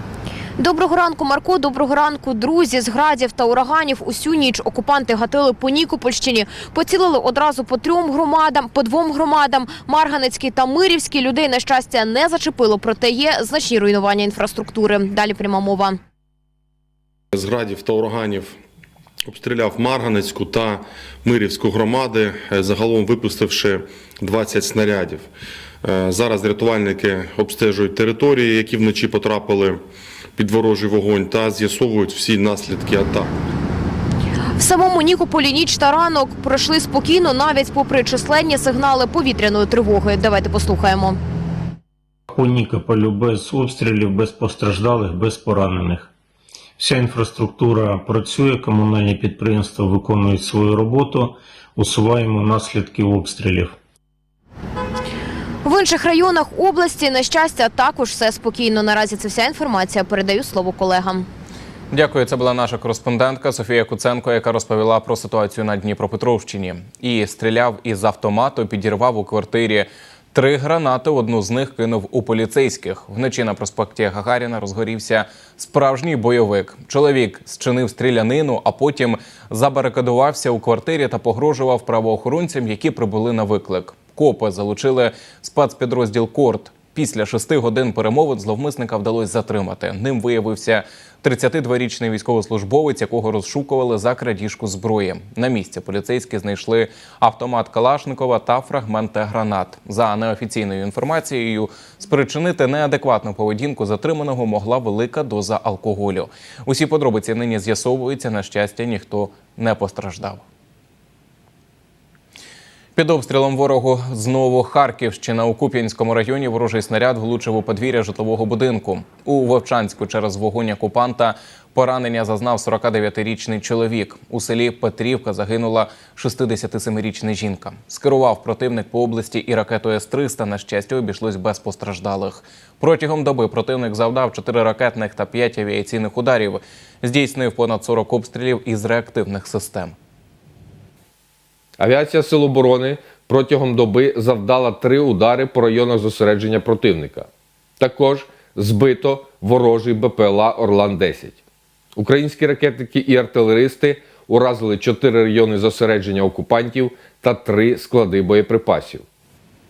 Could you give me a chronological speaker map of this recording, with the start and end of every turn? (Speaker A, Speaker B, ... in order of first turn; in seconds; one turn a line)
Speaker A: 0.6-16.0
Speaker B: 17.3-18.6
Speaker B: 19.2-25.3
Speaker B: 25.8-29.8
Speaker B: 30.4-33.3
Speaker A: 34.6-41.2
Speaker C: 42.3-46.1
Speaker C: 46.8-53.7
Speaker A: 55.6-61.3
Speaker D: 61.9-110.5
Speaker D: 113.0-140.0
Speaker E: 141.8-147.3
Speaker E: 147.8-151.4
Speaker E: 152.0-159.1